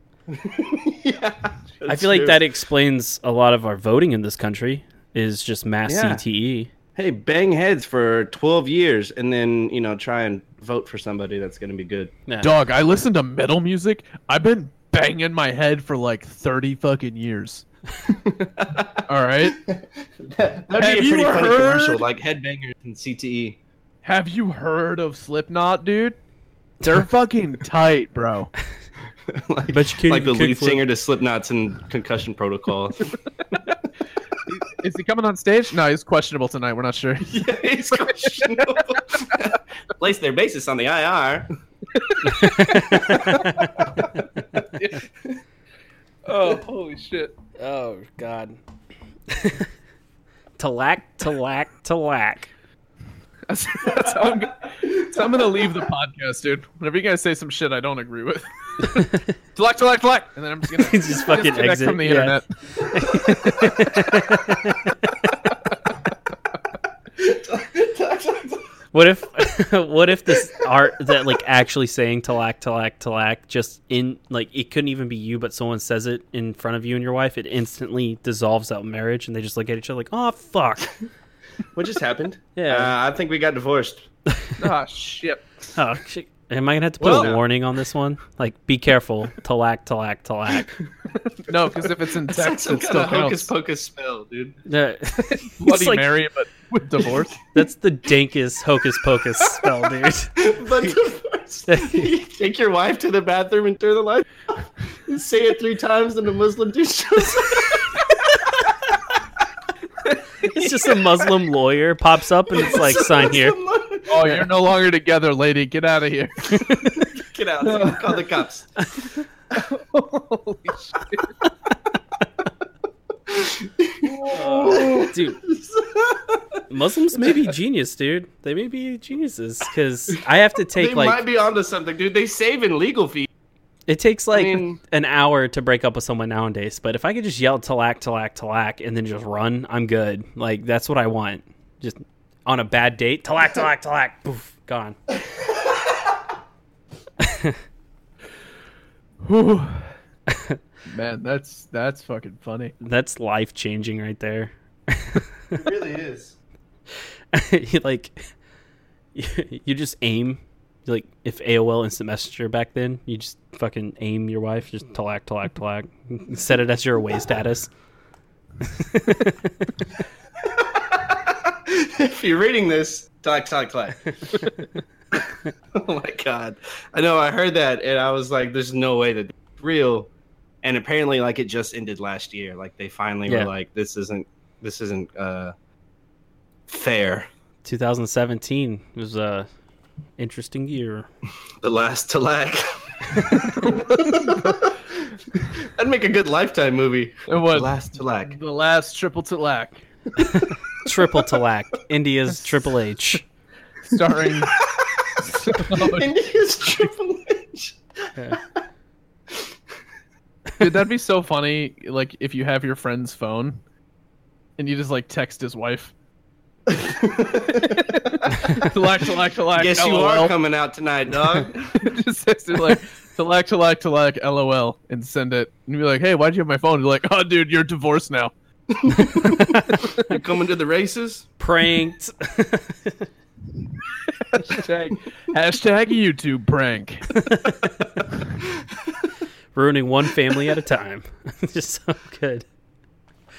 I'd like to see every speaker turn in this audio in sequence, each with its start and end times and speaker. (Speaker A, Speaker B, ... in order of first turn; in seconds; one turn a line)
Speaker A: 0.3-2.4
Speaker B: 1.9-6.7
Speaker A: 5.9-6.2
Speaker A: 7.0-12.1
Speaker B: 12.3-12.5
Speaker C: 12.4-17.6
Speaker A: 18.1-23.6
Speaker C: 19.1-19.6
Speaker C: 20.8-22.0
Speaker C: 24.0-26.2
Speaker C: 26.8-28.5
Speaker A: 29.3-33.7
Speaker B: 29.7-30.8
Speaker C: 34.5-37.4
Speaker A: 37.2-41.5
Speaker C: 38.2-39.4
Speaker C: 41.9-43.8
Speaker B: 42.2-43.9
Speaker A: 43.1-43.6
Speaker C: 44.6-45.0
Speaker C: 46.3-47.4
Speaker B: 47.6-48.6
Speaker B: 49.3-49.7
Speaker B: 50.6-52.5
Speaker C: 53.5-62.5
Speaker B: 58.9-59.3
Speaker B: 60.8-65.3
Speaker A: 67.2-68.7
Speaker B: 68.9-80.9
Speaker A: 81.8-84.1
Speaker B: 82.6-82.9
Speaker B: 84.3-84.6
Speaker C: 84.6-85.7
Speaker B: 85.8-90.8
Speaker A: 87.0-87.4
Speaker C: 87.0-87.3
Speaker C: 91.4-93.5
Speaker A: 92.3-94.6
Speaker B: 94.7-96.1
Speaker C: 95.3-97.4
Speaker B: 97.5-100.5
Speaker A: 100.4-104.3
Speaker B: 101.7-102.1
Speaker A: 105.1-108.0
Speaker B: 110.4-113.6
Speaker A: 112.5-114.5
Speaker C: 114.1-116.7
Speaker B: 116.5-117.1
Speaker A: 117.0-118.7
Speaker C: 117.6-118.2
Speaker B: 118.8-119.1
Speaker C: 119.5-121.4
Speaker A: 123.3-124.1
Speaker C: 124.0-125.1
Speaker B: 124.3-125.4
Speaker A: 124.6-126.6
Speaker B: 126.7-131.2
Speaker A: 130.8-133.3
Speaker B: 133.9-145.0
Speaker A: 134.3-134.8
Speaker B: 147.2-147.6
Speaker C: 149.2-149.9
Speaker B: 150.3-150.6
Speaker C: 150.9-152.7
Speaker B: 152.8-155.6
Speaker A: 155.5-156.3
Speaker B: 157.3-158.2
Speaker B: 159.2-167.7
Speaker B: 168.6-169.7
Speaker A: 170.4-174.4
Speaker A: 175.1-180.1
Speaker A: 180.6-185.5
Speaker A: 186.7-187.3
Speaker B: 187.7-189.5
Speaker B: 190.2-191.1
Speaker A: 191.6-198.4
Speaker C: 193.5-194.6
Speaker C: 197.3-199.8
Speaker B: 200.2-203.2
Speaker C: 203.9-204.6
Speaker A: 204.6-208.4
Speaker C: 205.3-206.1
Speaker C: 210.6-213.6
Speaker C: 214.6-215.9
Speaker A: 216.7-218.5
Speaker C: 217.6-220.3
Speaker A: 219.5-221.9
Speaker C: 221.7-228.3
Speaker A: 228.7-231.3
Speaker B: 231.4-233.1
Speaker C: 234.2-237.2
Speaker B: 237.2-237.9
Speaker B: 239.6-242.5